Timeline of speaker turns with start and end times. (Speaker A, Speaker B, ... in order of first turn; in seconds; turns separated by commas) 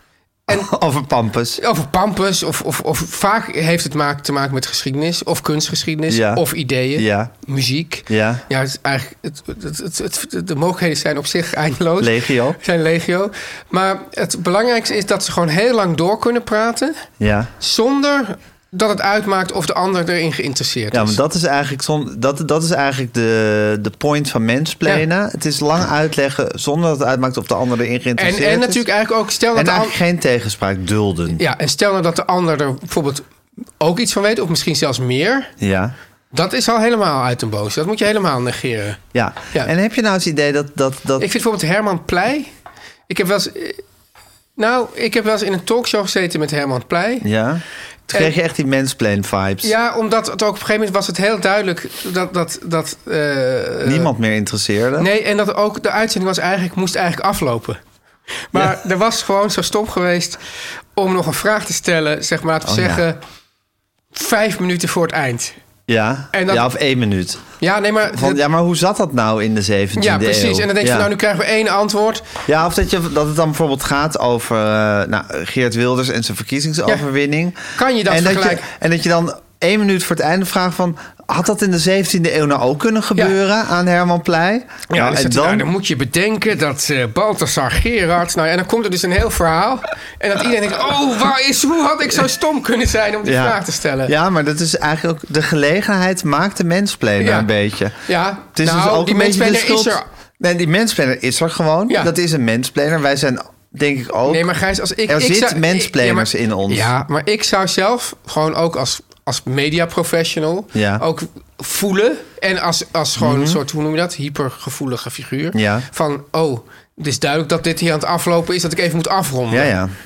Speaker A: 0.5-1.6, Speaker B: 1.6-17.0, Speaker A: 6.1-7.3, Speaker A: 8.1-8.4, Speaker A: 12.0-12.6, Speaker A: 17.2-17.5, Speaker B: 17.6-21.2, Speaker A: 20.9-28.9, Speaker B: 28.2-29.9, Speaker A: 29.5-31.4, Speaker B: 31.4-33.2, Speaker B: 33.8-35.5, Speaker A: 35.6-35.9, Speaker B: 36.3-39.0, Speaker A: 39.1-41.3, Speaker B: 41.2-42.5, Speaker B: 43.1-43.8, Speaker B: 44.6-47.2, Speaker A: 47.2-49.7, Speaker B: 49.6-54.1, Speaker A: 53.8-55.1, Speaker B: 55.0-57.8, Speaker B: 58.5-60.4, Speaker B: 60.9-63.2, Speaker A: 62.6-63.0, Speaker B: 64.1-65.5, Speaker A: 65.9-67.4, Speaker B: 66.3-66.7, Speaker B: 67.6-68.4, Speaker A: 68.1-71.1, Speaker B: 70.0-72.3, Speaker A: 72.5-85.7, Speaker B: 77.8-78.7, Speaker B: 84.9-94.1, Speaker A: 93.2-98.0, Speaker B: 97.2-97.5, Speaker B: 98.0-100.0, Speaker A: 98.5-104.5, Speaker B: 104.2-119.7, Speaker A: 105.0-106.9, Speaker A: 110.7-111.0, Speaker A: 113.2-113.6, Speaker A: 115.5-115.9, Speaker A: 119.5-119.9